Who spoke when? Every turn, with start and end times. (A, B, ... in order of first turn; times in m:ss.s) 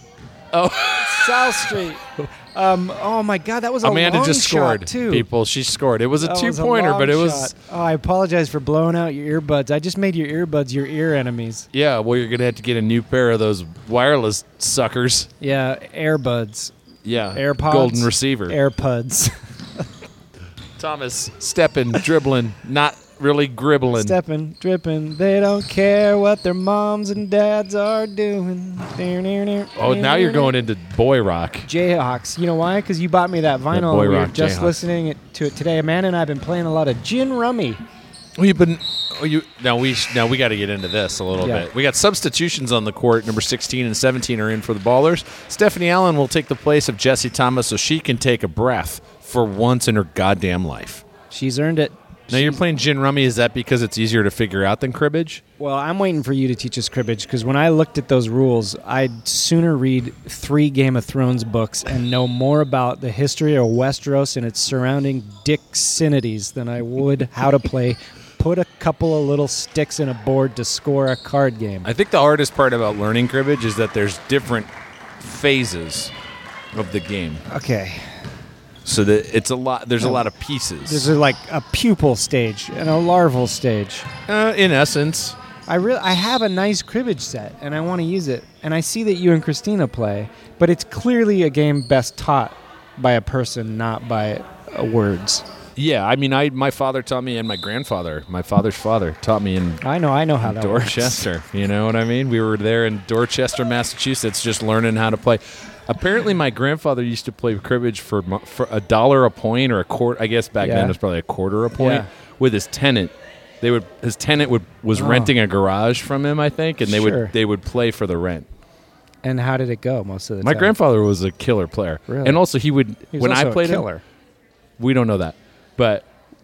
0:00.5-0:01.7 A
0:01.0-0:02.0 B
0:02.5-0:05.3 B
0:03.8-0:07.5 A
0:06.2-0:11.7 B
0:11.7-0:15.3 A
0:15.4-0:16.7 B
0:17.0-0:18.6 A
0:17.3-0:19.3 B
0:20.8-0:24.2 A
0:23.9-0:30.6 B
0:29.8-0:31.7 A
0:31.6-0:37.8 B
0:33.7-0:34.8 A
0:38.4-0:51.0 A
0:41.4-0:41.7 B
0:51.3-0:52.6 B
0:52.3-0:55.4 A
0:55.6-1:11.9 B
1:11.8-1:16.1 A
1:16.7-1:17.4 A
1:17.5-1:18.1 B
1:18.8-1:21.1 A
1:20.0-1:20.3 B
1:20.9-1:24.1 B
1:24.3-1:25.4 A
1:25.7-1:35.4 B
1:35.8-1:39.8 A
1:39.8-1:41.3 B
1:40.4-1:58.5 A
1:50.6-1:51.0 B
1:51.8-1:52.1 B
1:54.9-1:55.3 B
1:56.8-1:57.3 B
1:59.2-2:00.7 B
2:00.4-2:03.9 A
2:02.1-2:02.4 B
2:03.1-2:04.0 B
2:04.8-2:06.1 A